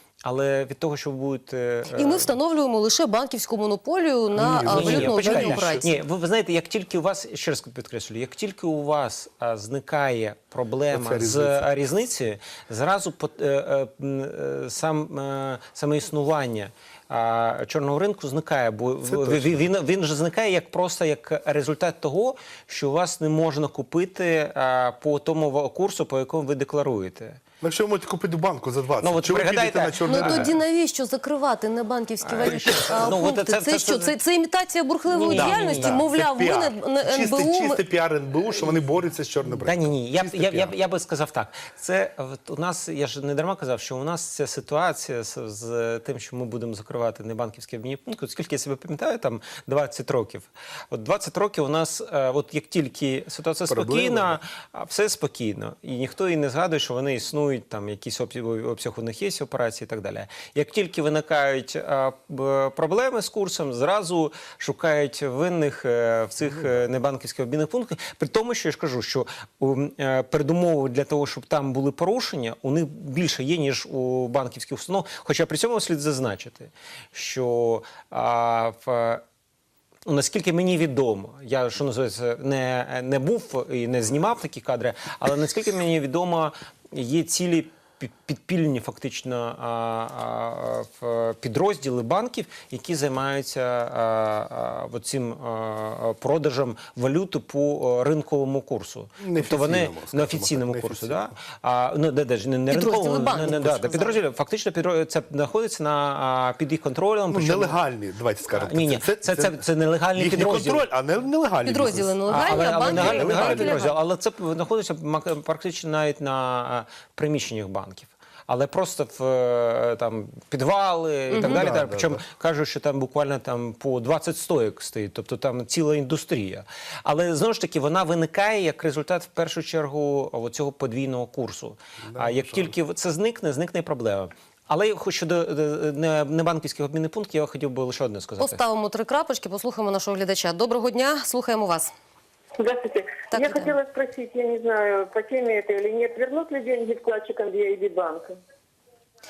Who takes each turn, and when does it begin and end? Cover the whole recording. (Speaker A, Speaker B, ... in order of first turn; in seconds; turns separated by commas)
Speaker A: 0.2-2.3, Speaker B: 1.9-5.9, Speaker C: 4.3-6.0, Speaker A: 4.6-27.4, Speaker C: 10.9-11.7, Speaker C: 19.0-19.6, Speaker C: 27.6-30.5, Speaker A: 29.0-30.6, Speaker B: 30.0-37.8, Speaker A: 32.2-34.1, Speaker A: 35.1-36.0, Speaker C: 35.3-40.7, Speaker A: 39.5-79.2, Speaker C: 53.7-54.4, Speaker C: 66.5-66.8, Speaker A: 80.0-107.8, Speaker C: 99.2-101.3, Speaker B: 102.7-104.2, Speaker C: 107.3-109.6, Speaker A: 108.5-110.8, Speaker C: 110.1-113.8, Speaker B: 111.6-114.0, Speaker A: 112.3-138.6, Speaker B: 121.3-121.7, Speaker C: 121.3-122.2, Speaker C: 132.0-132.7, Speaker B: 138.4-141.9, Speaker D: 142.6-148.4, Speaker B: 143.3-143.7